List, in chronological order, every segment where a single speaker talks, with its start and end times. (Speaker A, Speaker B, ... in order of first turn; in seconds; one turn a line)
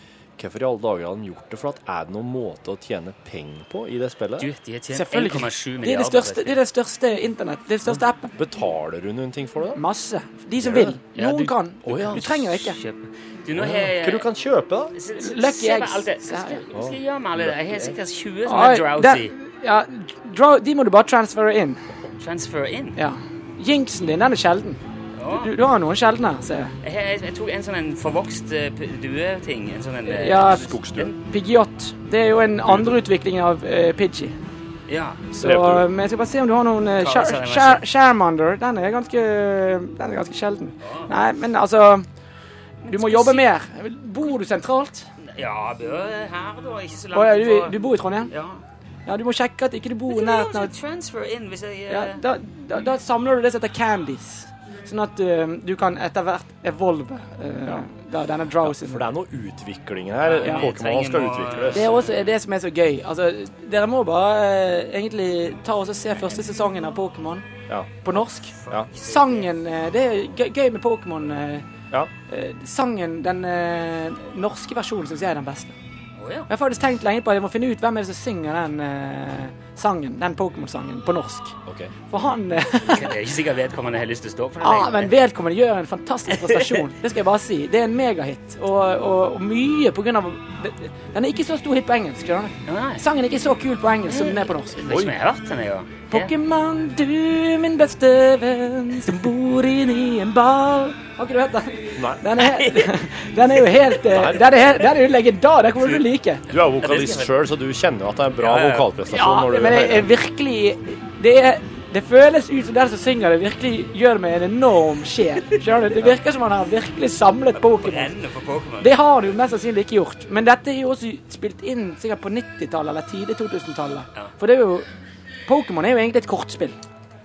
Speaker A: 0.4-4.5
Speaker B: 4.4-6.6
Speaker C: 4.9-8.3
Speaker A: 7.9-9.8
Speaker C: 9.7-12.8
Speaker A: 10.6-10.9
Speaker B: 11.2-14.3
Speaker A: 11.8-12.2
Speaker A: 13.6-14.9
Speaker B: 14.9-19.3
Speaker C: 15.2-16.6
Speaker A: 16.7-17.9
Speaker C: 18.4-21.8
Speaker B: 22.2-23.0
Speaker C: 22.9-24.8
Speaker B: 25.2-25.5
Speaker C: 25.3-26.7
Speaker B: 26.8-31.1
Speaker C: 30.1-34.4
Speaker A: 30.5-31.1
Speaker B: 34.9-35.2
Speaker C: 35.3-42.0
Speaker A: 35.4-35.9
Speaker B: 37.0-37.8
Speaker B: 40.8-41.1
Speaker B: 42.8-43.5
Speaker C: 42.9-45.1
Speaker B: 45.2-47.8
Speaker C: 47.1-48.3
Speaker B: 48.3-48.6
Speaker C: 49.0-50.7
Speaker B: 50.1-52.2
Speaker C: 51.9-59.0
Speaker A: 58.6-61.9
Speaker B: 60.2-62.1
Speaker C: 61.7-67.5
Speaker A: 67.7-68.0
Speaker C: 68.0-71.6
Speaker B: 68.6-69.5
Speaker C: 72.3-75.7
Speaker B: 76.2-76.5
Speaker C: 76.5-81.5
Speaker A: 81.7-81.9
Speaker C: 82.1-83.1
Speaker B: 82.8-85.1
Speaker C: 84.6-95.0
Speaker B: 86.4-86.8
Speaker B: 92.7-93.0
Speaker B: 94.1-96.3
Speaker C: 96.1-106.4
Speaker A: 102.0-102.2
Speaker B: 102.4-102.9
Speaker A: 104.1-104.4
Speaker A: 106.5-110.1
Speaker B: 106.5-107.3
Speaker B: 108.4-108.9
Speaker C: 109.1-118.1
Speaker B: 117.7-118.9
Speaker C: 118.8-124.9
Speaker C: 125.5-126.8